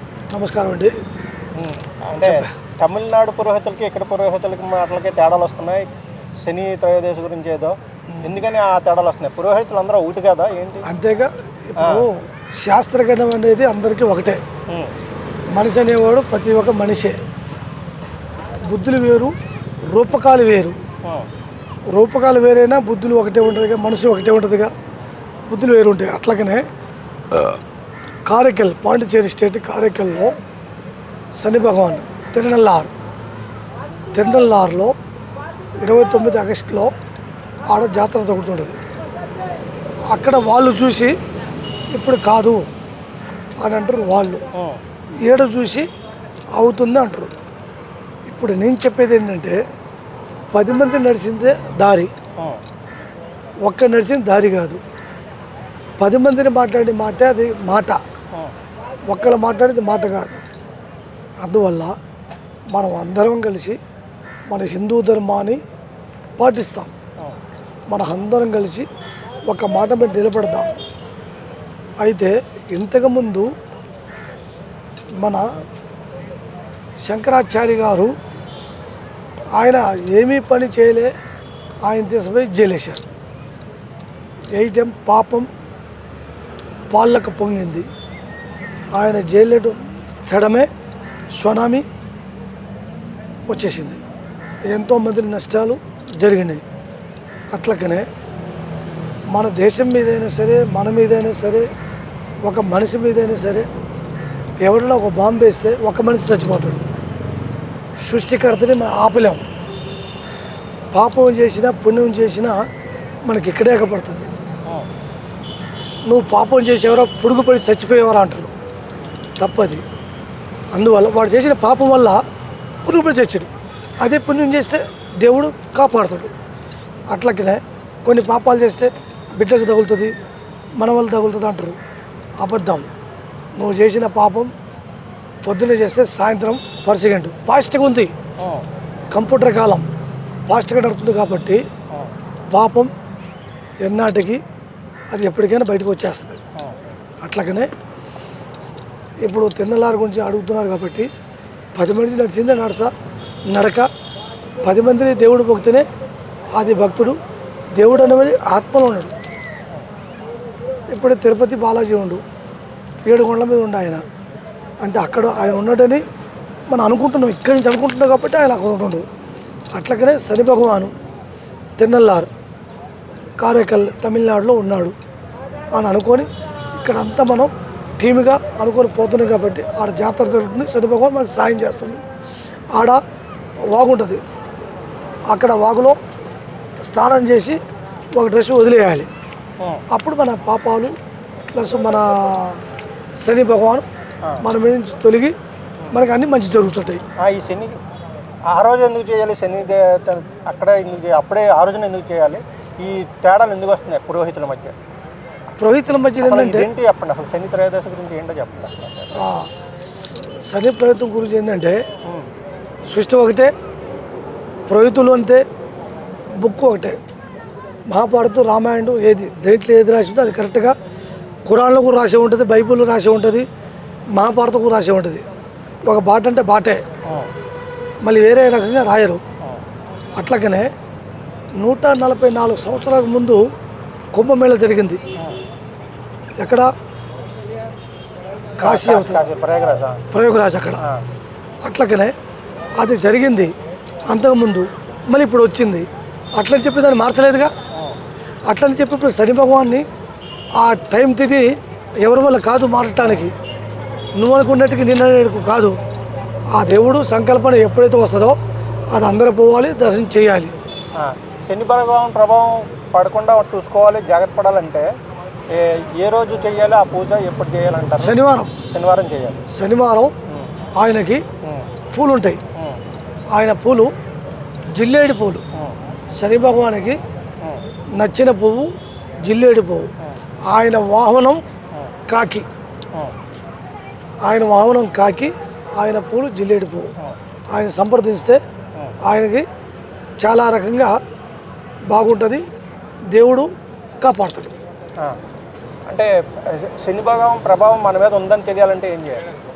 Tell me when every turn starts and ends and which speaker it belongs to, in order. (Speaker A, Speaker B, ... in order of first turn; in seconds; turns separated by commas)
Speaker A: 0.3-0.9, Speaker B: 1.5-5.9, Speaker A: 2.2-2.5, Speaker B: 6.4-10.9, Speaker A: 8.1-8.4, Speaker A: 10.8-14.4, Speaker B: 11.8-12.1, Speaker A: 15.5-17.2, Speaker A: 18.6-19.3, Speaker A: 19.9-20.8, Speaker A: 21.9-24.7, Speaker A: 25.5-26.6, Speaker A: 27.3-27.6, Speaker A: 28.2-30.4, Speaker A: 31.4-32.9, Speaker A: 34.1-34.9, Speaker A: 35.8-36.9, Speaker A: 37.6-38.8, Speaker A: 40.1-41.1, Speaker A: 41.9-42.6, Speaker A: 43.6-44.5, Speaker B: 44.5-44.8, Speaker A: 45.2-45.9, Speaker A: 46.5-47.3, Speaker A: 48.3-49.6, Speaker A: 50.5-52.1, Speaker A: 53.7-54.8, Speaker A: 56.0-58.0, Speaker A: 59.1-60.4, Speaker A: 61.4-62.0, Speaker A: 62.7-63.8, Speaker A: 64.5-65.6, Speaker A: 66.4-66.9, Speaker A: 67.9-68.9, Speaker A: 69.5-70.7, Speaker A: 72.0-73.5, Speaker A: 75.2-75.4, Speaker A: 77.0-78.1, Speaker A: 79.5-81.1, Speaker A: 81.8-83.0, Speaker A: 84.5-85.5, Speaker A: 86.9-87.9, Speaker A: 88.9-90.7, Speaker A: 91.3-91.9, Speaker A: 93.5-94.0, Speaker A: 94.7-96.6, Speaker A: 97.5-98.1, Speaker A: 99.3-101.7, Speaker A: 102.4-103.7, Speaker A: 104.6-106.8, Speaker A: 108.0-109.4, Speaker A: 110.9-112.6, Speaker A: 113.2-114.3, Speaker A: 116.1-118.5, Speaker A: 119.4-119.8, Speaker A: 120.7-122.2, Speaker A: 122.8-126.3, Speaker A: 127.1-130.1, Speaker A: 130.8-131.8, Speaker A: 132.4-132.9, Speaker A: 133.6-134.5, Speaker A: 135.4-138.1, Speaker B: 138.4-138.7, Speaker A: 139.1-139.9, Speaker A: 140.5-141.6, Speaker A: 142.5-142.9, Speaker A: 143.8-144.4, Speaker A: 145.1-146.4, Speaker A: 147.2-147.7, Speaker A: 149.2-151.1, Speaker A: 151.8-152.9, Speaker A: 153.5-153.9, Speaker A: 154.6-155.9, Speaker A: 156.5-157.2, Speaker A: 157.8-159.2, Speaker A: 160.9-162.2, Speaker A: 163.1-164.0, Speaker A: 164.8-166.0, Speaker A: 166.7-169.1, Speaker A: 169.8-170.9, Speaker A: 171.8-172.3, Speaker A: 173.4-174.9, Speaker A: 175.7-182.0, Speaker A: 182.7-183.0, Speaker A: 183.7-184.2, Speaker A: 185.3-186.0, Speaker A: 186.8-187.6, Speaker A: 188.2-189.1, Speaker A: 189.9-190.9, Speaker A: 191.6-192.6, Speaker A: 193.2-193.9, Speaker A: 194.4-195.3, Speaker A: 195.9-197.0, Speaker B: 197.2-197.8, Speaker B: 198.5-204.8, Speaker A: 205.6-206.7, Speaker B: 206.2-209.3, Speaker A: 209.2-211.8, Speaker A: 212.9-213.5, Speaker A: 214.7-215.4, Speaker A: 216.4-217.0, Speaker A: 217.9-220.8, Speaker A: 221.5-223.5, Speaker A: 224.1-225.2, Speaker A: 225.9-226.8, Speaker B: 227.1-227.3, Speaker A: 228.0-229.2, Speaker A: 230.2-230.7, Speaker A: 231.6-233.4, Speaker A: 234.1-235.0, Speaker A: 236.4-236.7, Speaker A: 238.6-239.2, Speaker B: 238.6-240.0, Speaker A: 240.1-240.8, Speaker A: 241.6-242.1, Speaker A: 242.8-243.5, Speaker A: 244.1-247.5, Speaker A: 248.5-249.9, Speaker A: 250.6-253.3, Speaker A: 254.2-255.8, Speaker A: 256.5-258.4, Speaker A: 258.9-260.5, Speaker B: 260.9-264.9, Speaker B: 265.5-268.2, Speaker A: 268.0-268.5, Speaker B: 268.7-269.4, Speaker A: 269.5-270.1, Speaker A: 270.8-271.2, Speaker A: 271.9-272.4, Speaker B: 272.6-272.8, Speaker A: 273.3-273.9, Speaker A: 274.8-275.4, Speaker A: 276.2-277.0, Speaker A: 278.0-278.7, Speaker A: 279.2-279.9, Speaker A: 280.4-281.4, Speaker A: 282.1-282.5, Speaker A: 284.2-286.9, Speaker A: 287.5-288.4, Speaker A: 289.0-289.4, Speaker A: 290.2-291.0, Speaker A: 291.9-292.4, Speaker A: 293.1-293.5, Speaker A: 294.0-294.5, Speaker B: 295.9-299.3